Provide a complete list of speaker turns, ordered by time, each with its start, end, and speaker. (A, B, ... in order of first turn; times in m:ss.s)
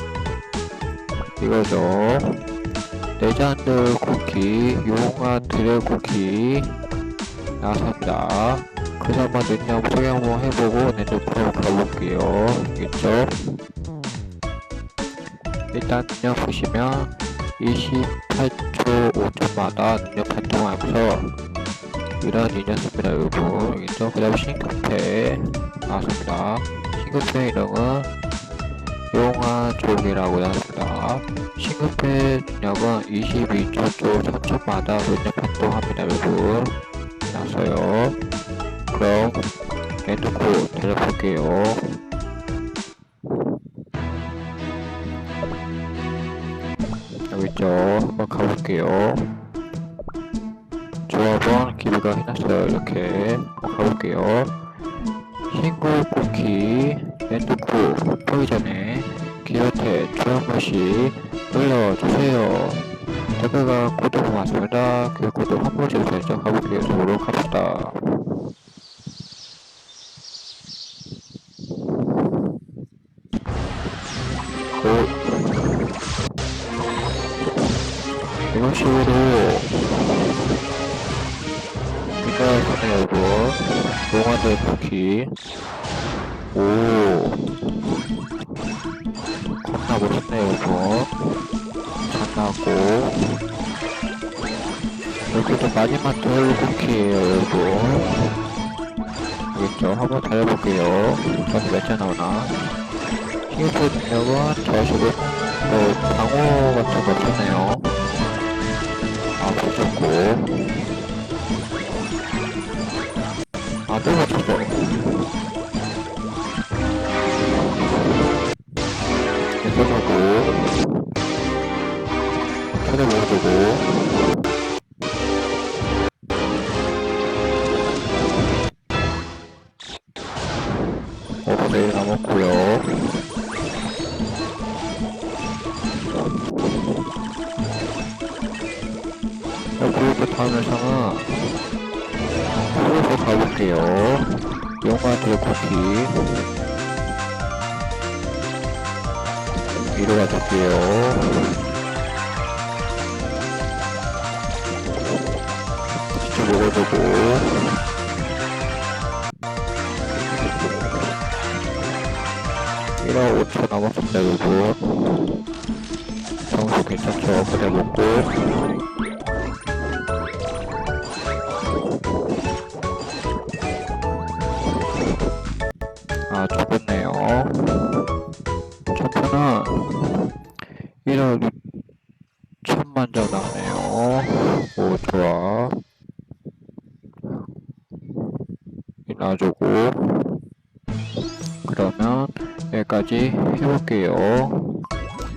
0:01.4-0:02.5 A
0:03.2-0:06.8 A
0:07.6-0:13.6 A
0:15.7-0:21.4 A
0:22.1-0:28.1 A
0:29.1-0:38.2 A
0:38.9-0:42.0 A
0:47.1-0:49.4 A
0:51.0-0:54.9 A
0:55.5-1:08.3 A
1:14.8-1:15.8 A
1:18.4-1:20.5 A
1:22.1-1:25.4 A
1:26.5-1:28.3 A
1:29.4-1:31.4 A
1:32.0-1:33.4 A
1:35.3-1:38.4 A
1:39.5-1:42.8 A
1:43.5-1:48.0 A
1:49.4-1:50.9 A
1:53.9-1:55.3 A
1:59.5-2:01.2 A
2:02.7-2:04.5 A
2:11.4-2:13.2 A
2:19.8-2:21.6 A
2:22.7-2:26.5 A
2:29.7-2:31.7 A
2:36.0-2:37.9 A
2:43.0-2:45.4 A
2:46.4-2:48.6 A
2:56.3-2:58.2 A
2:58.9-3:01.8 A
3:02.6-3:05.8 A
3:09.0-3:10.4 A
3:11.6-3:14.9 A